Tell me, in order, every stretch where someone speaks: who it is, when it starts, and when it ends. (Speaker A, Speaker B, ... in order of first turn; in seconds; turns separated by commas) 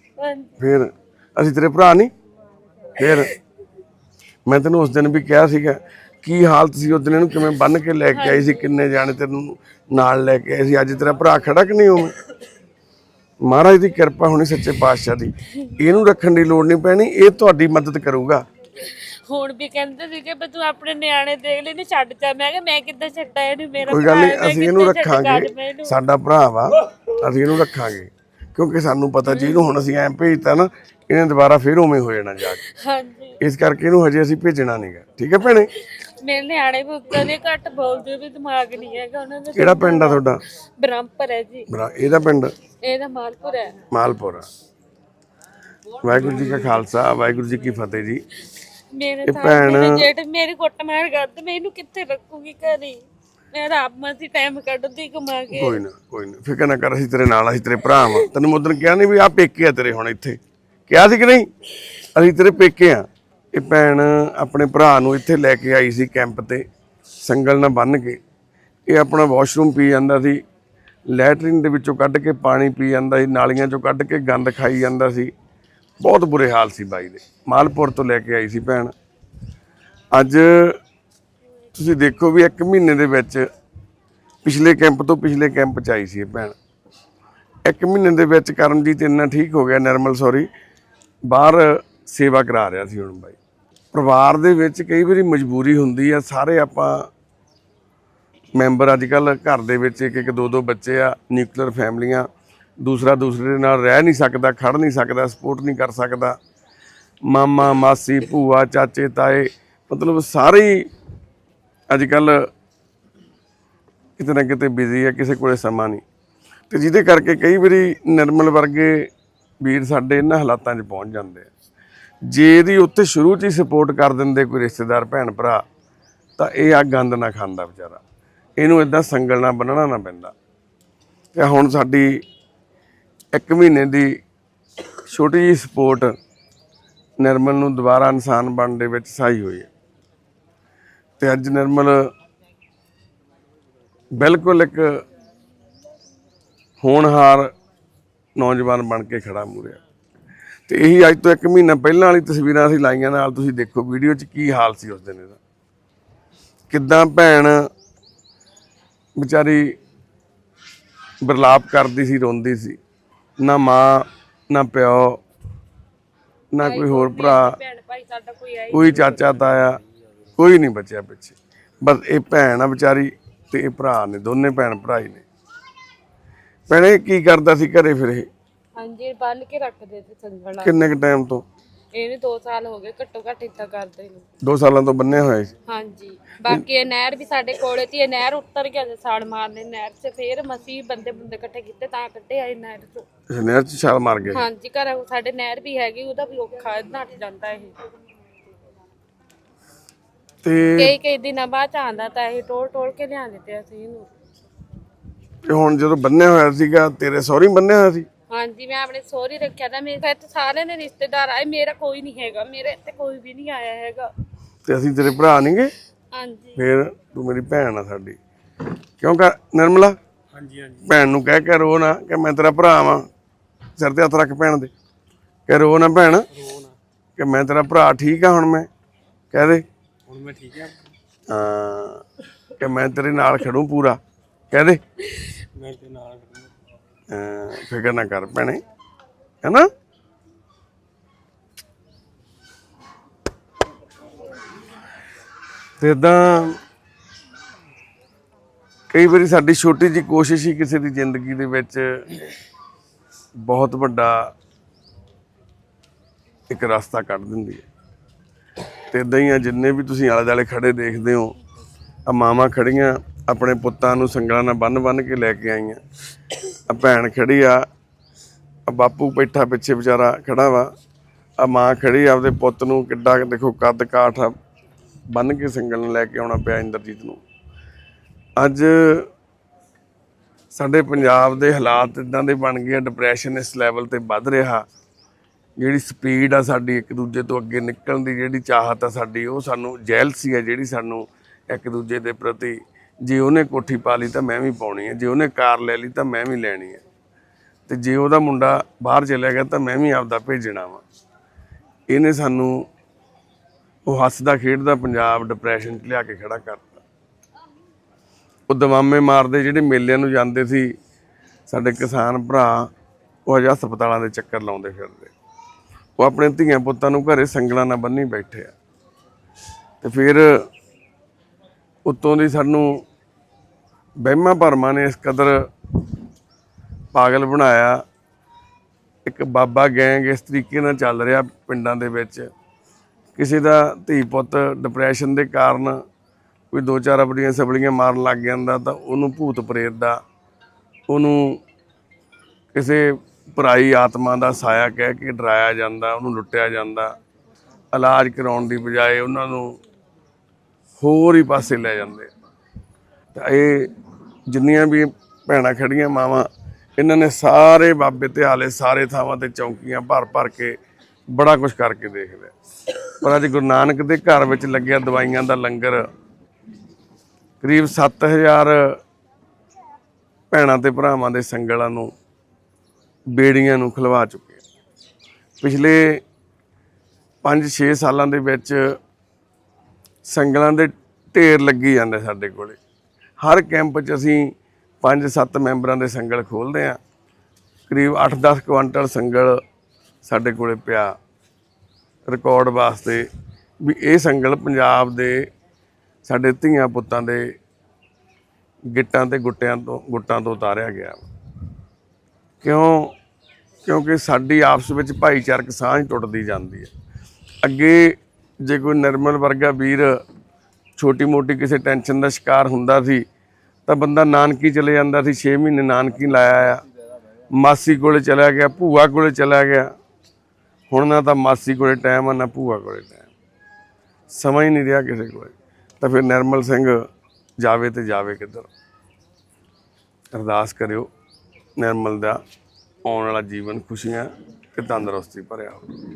Speaker A: 0.2-0.6, Speaker B: 0.6-2.1, Speaker B: 3.0-3.3, Speaker B: 4.5-12.2, Speaker A: 8.1-8.8, Speaker B: 13.4-18.4, Speaker A: 19.2-26.0, Speaker B: 23.9-32.6, Speaker A: 29.2-29.7, Speaker A: 32.6-33.4, Speaker B: 33.4-35.7, Speaker A: 36.2-40.2, Speaker B: 39.5-40.4, Speaker A: 40.8-41.7, Speaker B: 41.7-42.5, Speaker A: 42.8-43.8, Speaker B: 43.9-44.5, Speaker B: 46.0-48.2, Speaker A: 48.9-55.8, Speaker B: 49.2-50.1, Speaker B: 55.5-61.5, Speaker A: 57.9-58.3, Speaker B: 62.1-66.7, Speaker B: 67.2-68.2, Speaker B: 68.9-70.4, Speaker B: 71.1-75.3, Speaker B: 76.0-78.9, Speaker B: 80.1-80.8, Speaker B: 81.7-83.5, Speaker B: 84.4-86.6, Speaker B: 87.7-90.5, Speaker B: 91.3-93.4, Speaker B: 93.9-97.1, Speaker B: 98.5-102.3, Speaker B: 102.8-106.4, Speaker B: 107.3-110.9, Speaker B: 111.9-112.5, Speaker B: 114.2-116.0, Speaker B: 116.7-119.1, Speaker B: 119.6-121.5, Speaker B: 122.3-125.6, Speaker B: 126.4-128.0, Speaker B: 128.6-130.3, Speaker B: 131.3-132.2, Speaker B: 133.3-134.1, Speaker B: 135.1-136.1, Speaker B: 137.2-139.7, Speaker B: 141.2-142.0, Speaker B: 144.2-145.0, Speaker B: 146.8-147.5, Speaker B: 148.4-149.8, Speaker B: 150.7-155.4, Speaker B: 156.7-157.6, Speaker B: 159.2-159.8, Speaker B: 161.2-162.8, Speaker B: 163.4-165.2, Speaker B: 166.5-167.6, Speaker A: 166.6-169.1, Speaker B: 168.7-169.8, Speaker C: 168.9-170.2, Speaker B: 170.4-175.2, Speaker B: 176.7-178.3, Speaker A: 178.8-180.8, Speaker B: 180.6-181.4, Speaker A: 181.9-184.2, Speaker B: 184.4-185.5, Speaker A: 185.7-193.1, Speaker B: 193.3-194.4, Speaker A: 194.3-197.8, Speaker B: 200.4-200.9, Speaker A: 200.8-204.1, Speaker B: 205.4-208.1, Speaker A: 208.3-214.1, Speaker B: 214.7-215.7, Speaker A: 216.1-216.6, Speaker B: 216.6-218.2, Speaker B: 219.0-219.9, Speaker C: 220.3-220.9, Speaker B: 220.8-223.1, Speaker B: 223.8-224.7, Speaker B: 225.5-226.3, Speaker C: 226.3-226.8, Speaker B: 227.2-228.7, Speaker B: 229.3-229.6, Speaker C: 230.1-230.8, Speaker B: 231.3-232.0, Speaker B: 232.6-234.0, Speaker B: 234.5-234.8, Speaker C: 235.5-236.5, Speaker B: 237.1-238.6, Speaker B: 239.4-239.7, Speaker B: 245.8-246.6, Speaker B: 248.9-252.3, Speaker B: 253.4-254.3, Speaker B: 256.5-257.6, Speaker B: 258.9-261.3, Speaker B: 262.1-265.8, Speaker B: 266.7-267.7, Speaker B: 268.7-270.7, Speaker B: 271.4-274.4, Speaker B: 275.1-277.2, Speaker B: 278.4-279.1, Speaker B: 280.5-284.6, Speaker B: 285.6-296.8, Speaker B: 297.7-300.8, Speaker B: 301.9-302.7, Speaker B: 303.9-306.8, Speaker B: 308.5-310.8, Speaker B: 311.5-312.7, Speaker B: 313.3-315.1, Speaker B: 316.0-318.5, Speaker B: 319.8-320.4, Speaker B: 321.9-322.8, Speaker B: 324.0-325.4, Speaker B: 326.9-327.8, Speaker B: 329.1-332.3, Speaker B: 333.1-335.8, Speaker B: 336.5-340.0, Speaker B: 340.9-341.4, Speaker B: 342.5-346.9, Speaker B: 347.7-349.6, Speaker B: 350.8-352.1, Speaker B: 353.1-353.7, Speaker B: 354.3-360.6, Speaker B: 361.1-362.3, Speaker B: 363.0-365.8, Speaker B: 367.4-368.8, Speaker B: 370.3-371.9, Speaker B: 373.1-374.4, Speaker B: 375.4-376.0, Speaker B: 377.2-378.8, Speaker B: 380.1-382.6, Speaker B: 383.2-386.8, Speaker B: 387.7-389.4, Speaker B: 390.0-390.9, Speaker B: 392.1-393.1, Speaker B: 393.6-395.3, Speaker B: 396.1-397.3, Speaker B: 398.7-401.1, Speaker B: 402.4-402.9, Speaker B: 403.7-406.7, Speaker B: 407.4-409.9, Speaker B: 410.8-413.0, Speaker B: 413.7-416.6, Speaker B: 417.4-419.7, Speaker B: 420.7-423.1, Speaker B: 424.1-426.8, Speaker B: 427.4-428.5, Speaker B: 430.1-430.9, Speaker B: 431.6-432.2, Speaker B: 432.8-435.7